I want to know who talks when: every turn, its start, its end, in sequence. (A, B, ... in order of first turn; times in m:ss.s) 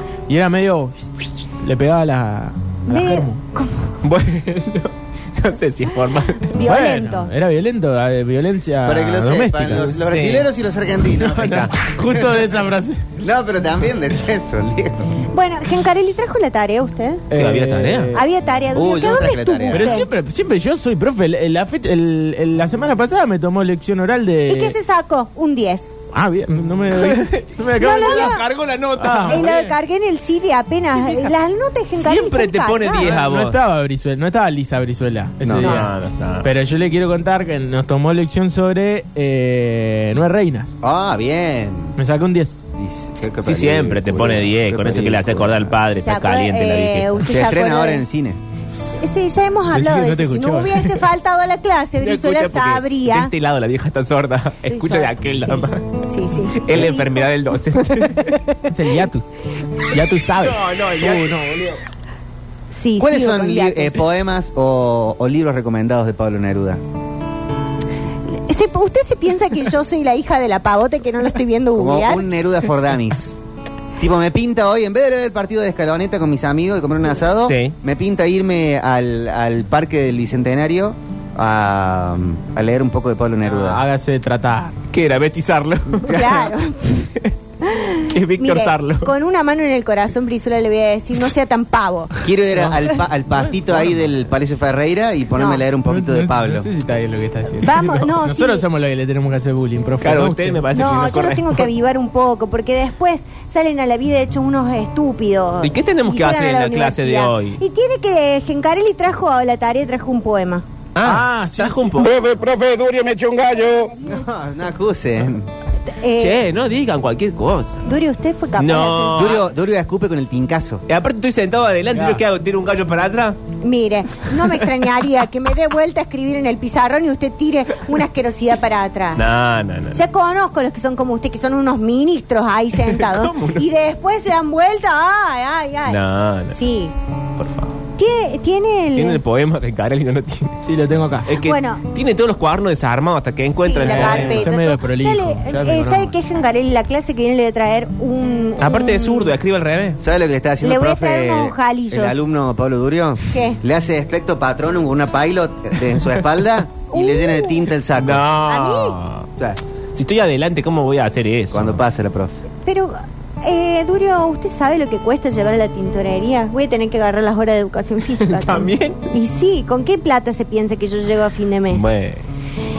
0:00.3-0:03.4 A
0:02.9-0:03.9 B
0:04.0-0:06.6 C
0:06.5-0:07.3 B
0:06.6-0:10.0 A
0:08.8-0:12.4 D
0:09.9-0:10.5 C
0:11.2-0:11.7 C
0:11.7-0:13.0 A
0:13.2-0:15.2 D
0:15.3-0:17.2 B
0:17.3-0:18.2 A
0:17.3-0:18.1 C
0:18.1-0:20.1 B
0:18.7-0:20.0 D
0:19.7-0:24.8 A
0:24.5-0:25.9 B
0:26.1-0:28.4 A
0:26.9-0:29.7 C
0:27.8-0:28.4 B
0:29.0-0:29.5 A
0:29.2-0:33.1 B
0:30.9-0:31.3 C
0:31.9-0:33.6 C
0:33.0-0:40.8 A
0:35.4-0:35.8 D
0:35.6-0:36.5 C
0:40.8-0:42.0 D
0:42.0-0:42.6 A
0:42.8-0:45.7 D
0:43.4-0:47.3 C
0:46.0-0:48.0 B
0:47.2-0:48.4 D
0:48.8-0:53.3 B
0:49.7-0:51.0 A
0:52.0-0:55.9 C
0:54.7-0:57.3 B
0:56.5-0:58.4 C
0:58.0-0:58.6 B
0:58.7-0:59.3 A
0:59.9-1:01.8 A
1:00.4-1:01.4 C
1:02.7-1:04.0 B
1:03.0-1:06.8 D
1:08.3-1:12.2 B
1:11.7-1:13.4 D
1:14.0-1:23.8 D
1:17.4-1:17.7 C
1:23.4-1:24.8 A
1:24.9-1:26.5 C
1:26.1-1:32.2 B
1:28.1-1:29.1 C
1:32.2-1:36.7 D
1:35.4-1:35.6 B
1:35.8-1:40.6 A
1:37.6-1:38.6 B
1:37.7-1:38.1 C
1:40.0-1:41.7 C
1:40.7-1:50.6 B
1:45.6-1:47.6 C
1:50.9-1:52.2 C
1:51.0-1:52.0 A
1:52.0-1:53.9 E
1:54.0-1:55.5 D
1:56.0-1:56.4 B
1:56.2-1:57.8 C
1:57.8-1:59.4 B
1:58.6-1:59.5 C
1:59.1-2:00.8 D
2:00.9-2:03.4 C
2:01.9-2:02.2 A
2:03.6-2:09.2 B
2:09.1-2:10.0 C
2:09.9-2:16.9 B
2:12.8-2:13.7 C
2:15.8-2:16.6 C
2:17.4-2:17.8 C
2:18.0-2:19.2 B
2:18.9-2:20.6 C
2:20.6-2:21.3 A
2:21.3-2:24.5 C
2:21.4-2:21.8 B
2:23.5-2:29.3 B
2:23.8-2:26.1 A
2:28.6-2:30.0 C
2:30.0-2:38.2 D
2:30.6-2:32.2 B
2:33.3-2:33.6 B
2:36.9-2:37.7 B
2:38.0-2:39.4 C
2:38.4-2:39.0 B
2:39.9-2:41.8 C
2:41.5-2:42.4 D
2:42.6-2:51.9 B
2:48.2-2:49.1 C
2:51.7-2:52.2 C